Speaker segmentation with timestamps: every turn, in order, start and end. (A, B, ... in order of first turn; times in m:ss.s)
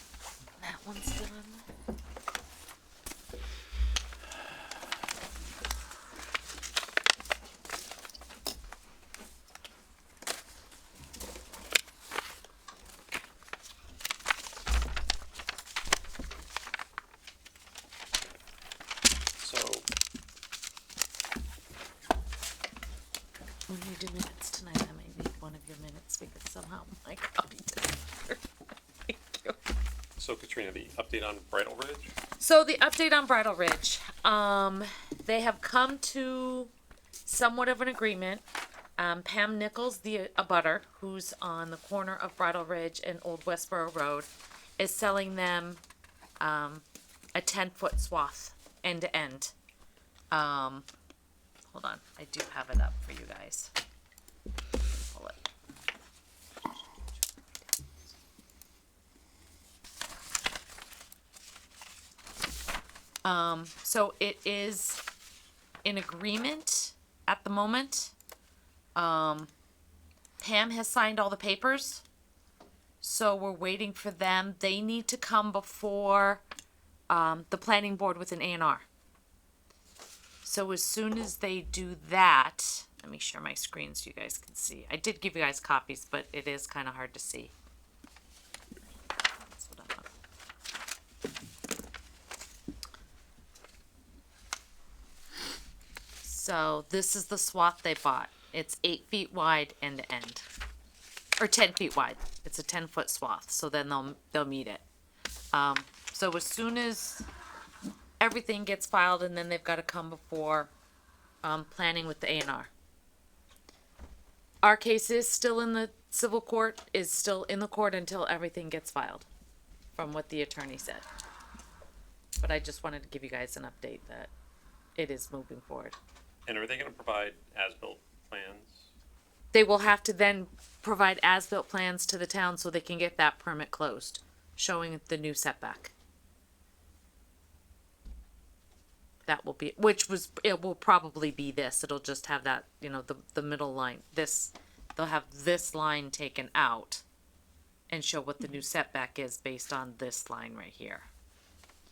0:00.6-0:01.6 A
0:19.4-0:19.9 B
0:23.7-0:28.4 A
0:29.1-0:29.6 A
0:30.2-0:32.1 B
0:32.4-0:36.7 A
0:37.2-0:38.4 A
0:39.0-0:45.8 A
0:46.4-0:46.8 A
0:47.3-0:49.5 A
0:50.3-0:50.8 A
0:51.7-0:53.7 A
0:55.1-0:55.4 A
1:03.2-1:05.0 A
1:05.8-1:08.1 A
1:09.0-1:09.5 A
1:10.4-1:12.0 A
1:13.0-1:16.4 A
1:17.1-1:18.8 A
1:20.4-1:27.5 A
1:29.5-1:30.1 A
1:36.2-1:40.4 A
1:41.4-1:44.8 A
1:45.5-1:47.3 A
1:48.2-1:50.7 A
1:51.4-1:52.7 A
1:54.6-1:59.3 A
2:00.0-2:01.0 A
2:02.4-2:04.3 A
2:05.0-2:05.9 A
2:06.4-2:08.9 B
2:09.5-2:15.9 A
2:19.3-2:27.0 A
2:27.9-2:31.1 A